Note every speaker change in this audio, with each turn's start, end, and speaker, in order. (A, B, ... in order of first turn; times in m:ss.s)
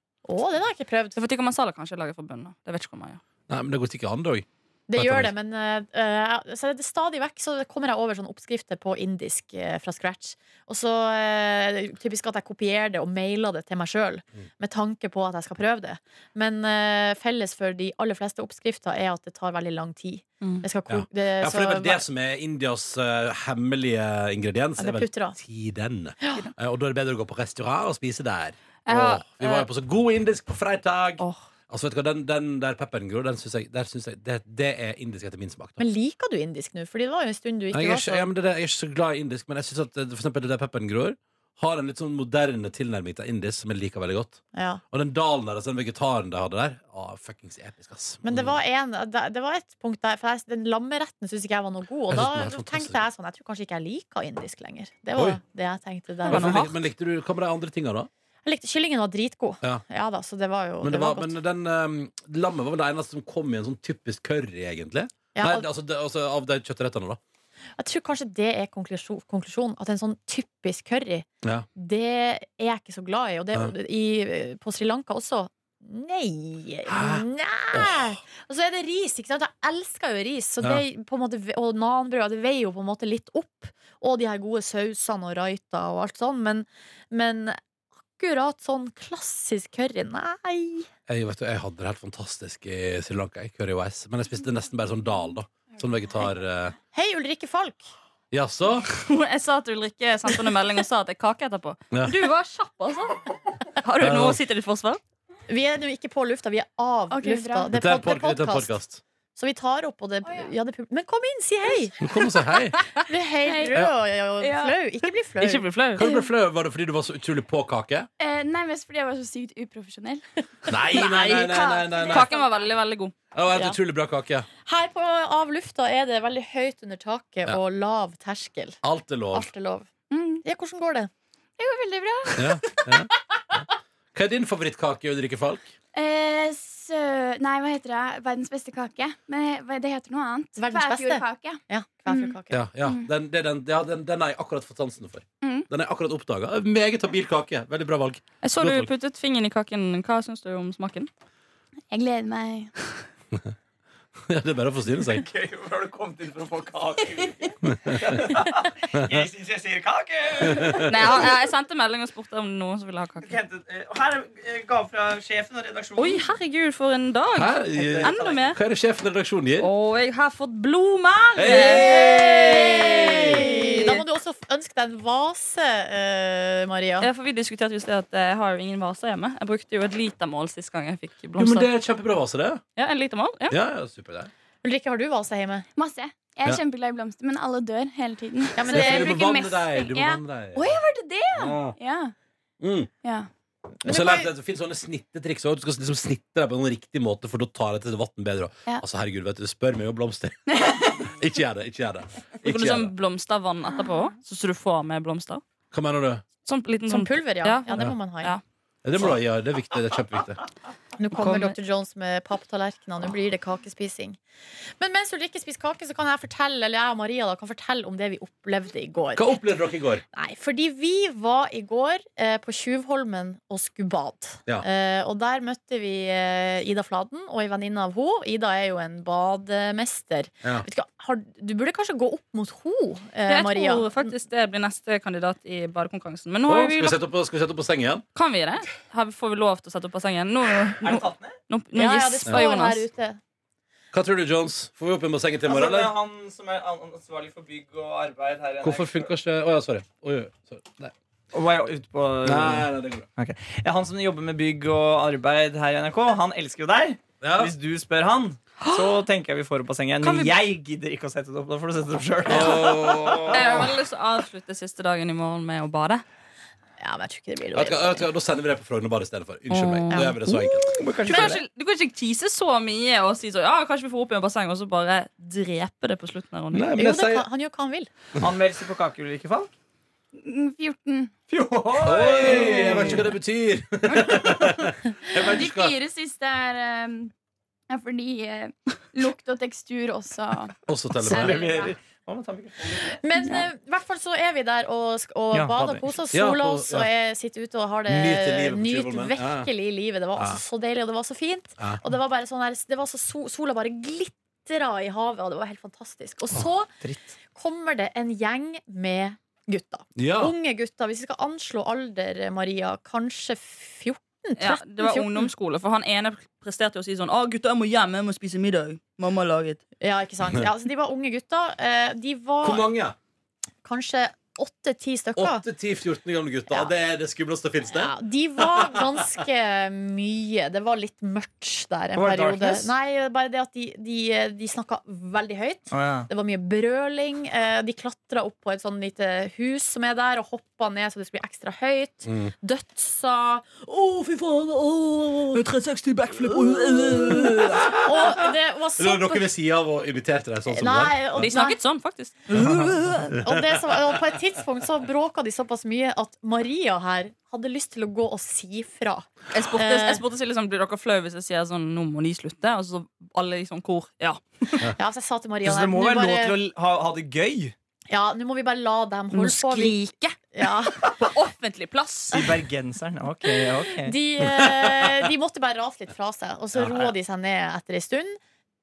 0:00.2-0:01.2 A
0:01.2-0:03.2 B
0:03.5-0:05.3 C
0:04.9-0:22.0 A
0:20.9-0:35.8 C
0:24.8-0:25.4 A
0:28.8-0:29.7 B
0:35.8-0:38.3 A
0:37.7-0:48.6 C
0:44.5-0:44.8 A
0:48.2-0:56.6 A
0:52.1-0:53.0 C
0:55.1-0:55.4 C
0:56.2-0:58.1 C
0:56.3-0:56.8 B
0:58.4-1:01.4 A
1:00.8-1:07.2 C
1:05.4-1:05.7 A
1:07.8-1:27.6 A
1:16.9-1:18.2 C
1:28.2-1:30.9 A
1:31.1-1:36.8 C
1:36.9-1:37.9 A
1:38.3-1:38.9 C
1:38.9-1:45.0 B
1:44.0-1:44.4 C
1:45.5-1:48.8 A
1:47.1-1:47.8 D
1:47.7-1:49.0 C
1:49.4-1:52.0 A
1:50.2-1:50.5 D
1:52.0-1:52.8 C
1:53.1-1:55.6 A
1:53.4-1:54.8 D
1:55.4-1:56.0 B
1:55.9-1:58.1 C
1:58.2-2:00.2 D
2:00.7-2:02.3 C
2:00.9-2:02.7 D
2:00.9-2:01.5 B
2:02.1-2:03.1 B
2:03.3-2:04.5 C
2:04.6-2:08.8 A
2:08.8-2:09.5 C
2:09.3-2:09.9 A
2:10.1-2:10.5 D
2:10.4-2:11.1 A
2:11.6-2:12.6 D
2:12.4-2:13.6 C
2:14.1-2:15.7 C
2:15.9-2:23.1 D
2:20.6-2:22.6 A
2:22.5-2:28.9 C
2:25.4-2:25.7 D
2:28.4-2:31.1 B
2:31.9-2:32.7 D
2:34.3-2:35.2 C
2:35.1-2:41.2 E
2:37.6-2:38.1 C
2:40.5-2:41.0 C
2:40.8-2:43.4 B
2:43.2-2:46.2 E
2:46.0-2:48.6 B
2:47.3-2:49.7 C
2:47.7-2:48.5 E
2:49.6-2:54.0 B
2:51.4-2:53.5 C
2:51.5-2:57.1 A
2:57.0-3:01.7 B
3:01.4-3:02.6 C
3:02.8-3:03.6 B
3:03.5-3:04.3 C
3:04.6-3:05.7 A
3:05.8-3:12.1 D
3:08.6-3:09.2 A
3:08.7-3:10.7 C
3:11.4-3:11.8 C
3:12.6-3:12.9 C
3:13.0-3:13.3 D
3:13.8-3:14.3 A
3:13.8-3:22.9 C
3:20.5-3:21.0 D
3:22.4-3:25.4 B
3:25.7-3:26.2 C
3:26.4-3:28.4 B
3:26.9-3:28.4 A
3:28.8-3:30.4 C
3:31.0-3:34.2 A
3:31.1-3:31.6 B
3:34.8-3:39.4 A
3:39.2-3:40.0 C
3:40.1-3:54.1 A
3:53.3-3:57.0 B
3:56.5-3:58.0 C
3:58.2-4:02.9 B
4:00.8-4:01.4 E
4:01.8-4:03.2 A
4:03.9-4:05.9 C
4:05.4-4:09.1 E
4:08.6-4:10.9 C
4:11.3-4:23.7 E
4:12.2-4:13.1 C
4:17.2-4:17.5 C
4:18.6-4:18.9 B
4:20.0-4:20.4 B
4:22.2-4:23.7 C
4:22.3-4:22.6 B
4:23.3-4:26.0 B
4:26.8-4:28.1 A
4:27.5-4:30.8 C
4:29.5-4:30.1 B
4:29.9-4:30.2 A
4:30.3-4:31.4 E
4:31.0-4:36.7 B
4:36.5-4:37.3 C
4:36.8-4:37.9 A
4:38.2-4:39.5 E
4:40.2-4:41.1 D
4:41.3-4:43.1 E
4:41.8-4:45.8 C
4:43.9-4:47.1 D
4:47.7-4:51.8 D
4:50.7-4:51.4 C
4:51.1-4:52.9 E
4:53.0-5:06.7 A
4:53.2-4:53.5 D
4:55.3-4:55.9 E
4:56.1-4:56.9 C
4:57.9-4:59.5 C
5:06.4-5:07.1 E
5:07.3-5:15.3 A
5:10.0-5:10.4 C
5:14.4-5:19.6 B
5:19.8-5:22.7 A
5:22.4-5:23.0 C
5:23.6-5:25.4 A
5:25.2-5:28.9 C
5:27.7-5:44.2 A
5:31.9-5:32.7 E
5:35.7-5:36.1 E
5:42.1-5:42.3 C
5:44.0-5:47.6 B
5:47.8-5:49.3 A
5:48.8-5:51.3 C
5:50.5-5:51.6 A
5:51.2-5:53.2 B
5:52.4-5:52.7 C
5:53.2-6:00.0 A
5:59.3-6:04.7 B
6:04.8-6:06.4 A
6:05.4-6:07.6 E
6:07.9-6:09.8 A
6:09.1-6:12.3 B
6:10.3-6:10.9 A
6:12.1-6:14.0 E
6:13.9-6:18.2 A
6:14.2-6:15.1 C
6:16.5-6:16.9 E